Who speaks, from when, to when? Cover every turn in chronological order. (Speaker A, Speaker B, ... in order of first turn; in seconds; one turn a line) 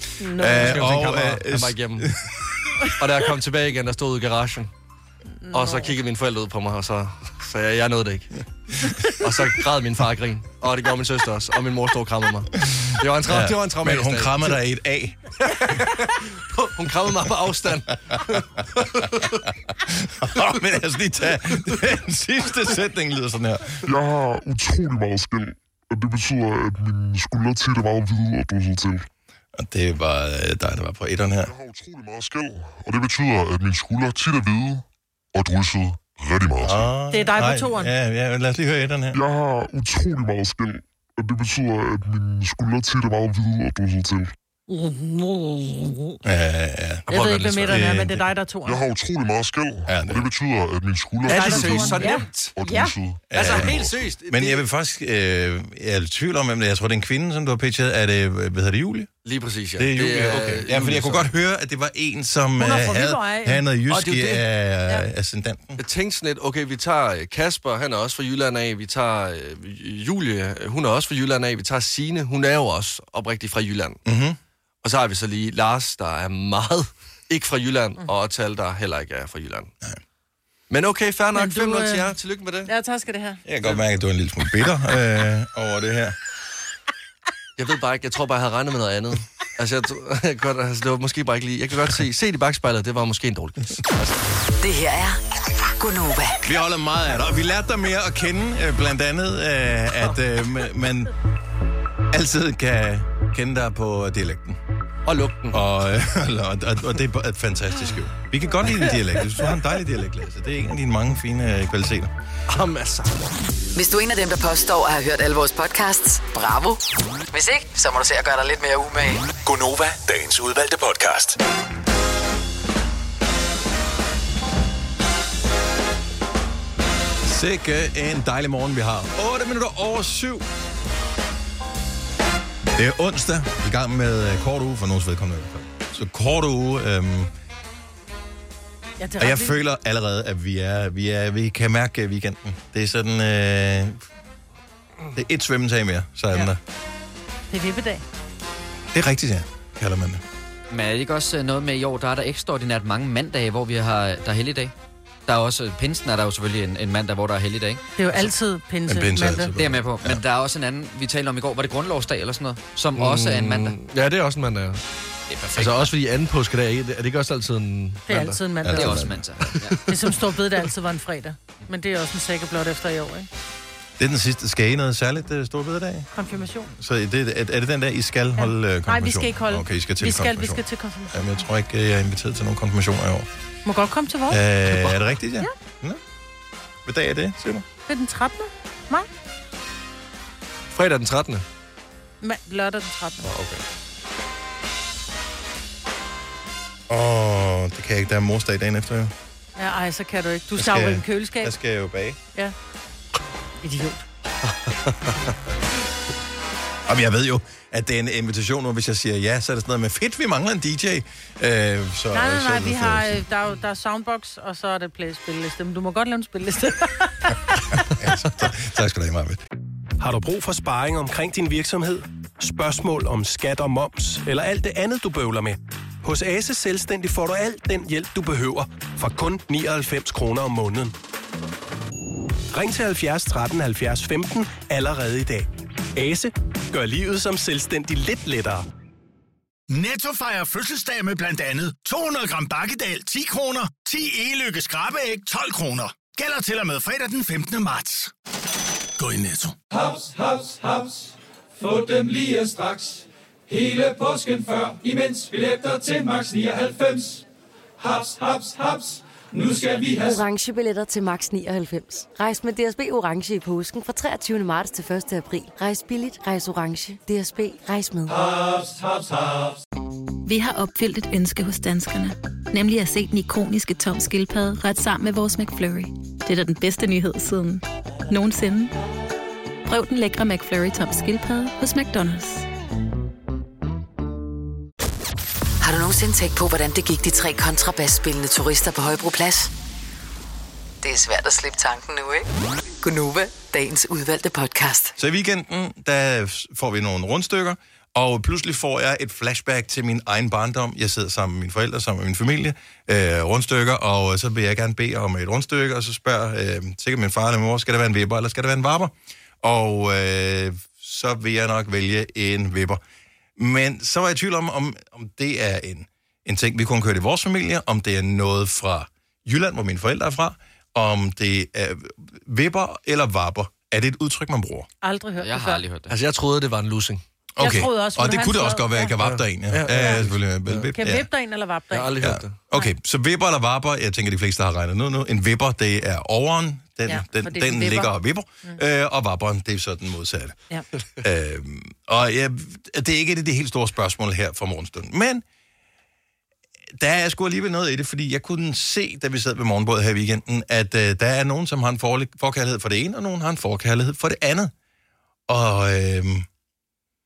Speaker A: 0.2-0.8
Speaker B: 0.3-2.1
Speaker C: 0.5-2.1
Speaker C: 3.0-4.7
Speaker A: 5.4-6.0
Speaker C: 5.5-8.3
Speaker A: 8.8-9.1
Speaker C: 9.1-14.6
Speaker B: 12.7-15.2
Speaker C: 15.4-19.4
Speaker B: 19.9-23.9
Speaker D: 23.9-29.1
Speaker B: 29.5-31.5
Speaker D: 31.4-36.9
Speaker B: 36.6-39.2
Speaker A: 37.1-37.9
Speaker D: 39.1-44.3
Speaker A: 44.7-46.2
Speaker B: 46.2-47.1
Speaker C: 47.1-47.8
Speaker A: 47.1-48.8
Speaker B: 47.6-48.2
Speaker D: 48.6-53.9
Speaker B: 49.9-50.3
Speaker A: 51.3-52.9
Speaker C: 51.3-52.5
Speaker B: 53.3-59.1
Speaker C: 53.3-54.6
Speaker C: 59.2-61.3
Speaker B: 59.8-65.8
Speaker A: 62.6-63.6
Speaker C: 63.9-64.4
Speaker C: 65.8-74.0
Speaker B: 74.0-74.4
Speaker C: 74.8-79.7
Speaker C: 80.7-82.7
Speaker A: 81.3-82.1
Speaker A: 82.7-83.4
Speaker B: 83.5-86.1
Speaker C: 87.6-93.9
Speaker E: 94.6-95.2
Speaker E: 95.8-96.5
Speaker B: 96.4-101.1
Speaker B: 102.1-104.6
Speaker C: 105.0-105.6
Speaker B: 105.5-112.1
Speaker C: 112.5-113.2
Speaker E: 113.7-119.3
Speaker F: 119.4-121.4
Speaker B: 127.2-130.4
Speaker B: 132.7-137.3
Speaker A: 139.0-139.6
Speaker B: 139.2-144.0
Speaker B: 145.1-146.6
Speaker A: 147.5-148.0
Speaker B: 148.9-150.2
Speaker G: 150.7-154.7
Speaker G: 155.2-157.8
Speaker A: 158.0-159.5
Speaker B: 158.9-160.2
Speaker G: 159.5-163.7
Speaker C: 162.9-164.8
Speaker G: 165.3-165.9
Speaker C: 165.6-168.4
Speaker A: 168.1-169.0
Speaker B: 168.6-169.3
Speaker G: 168.7-169.8
Speaker C: 169.4-169.8
Speaker A: 169.9-173.3
Speaker B: 174.0-176.1
Speaker A: 176.1-176.7
Speaker B: 176.7-183.3
Speaker A: 178.4-181.4
Speaker A: 183.7-184.4
Speaker B: 184.3-186.0
Speaker B: 186.8-187.6
Speaker A: 187.9-189.1
Speaker C: 190.7-191.4
Speaker A: 192.2-193.3
Speaker C: 193.3-193.6
Speaker B: 196.9-199.1
Speaker A: 199.6-201.5
Speaker B: 200.6-202.2
Speaker A: 203.6-204.0
Speaker B: 206.9-213.2
Speaker A: 212.1-217.6
Speaker B: 218.0-219.4
Speaker H: 220.0-230.9
Speaker H: 232.5-238.6
Speaker I: 239.7-248.1
Speaker I: 249.0-249.5
Speaker J: 249.7-257.2
Speaker J: 257.8-260.2
Speaker K: 260.0-268.2
Speaker J: 268.1-269.6
Speaker L: 270.2-278.7
Speaker L: 279.6-282.5
Speaker E: 285.6-289.5
Speaker E: 290.8-292.3
Speaker E: 292.8-294.9
Speaker B: 295.0-312.8
Speaker B: 313.4-324.7
Speaker A: 324.8-325.6
Speaker G: 325.2-325.9
Speaker C: 325.9-327.0
Speaker B: 327.4-331.1
Speaker A: 327.4-328.9
Speaker C: 329.0-330.7
Speaker A: 329.7-330.0
Speaker A: 330.7-331.9
Speaker C: 331.7-332.4
Speaker B: 332.0-340.4
Speaker A: 336.9-337.9
Speaker B: 341.0-345.2
Speaker B: 346.8-354.5
Speaker B: 355.3-356.2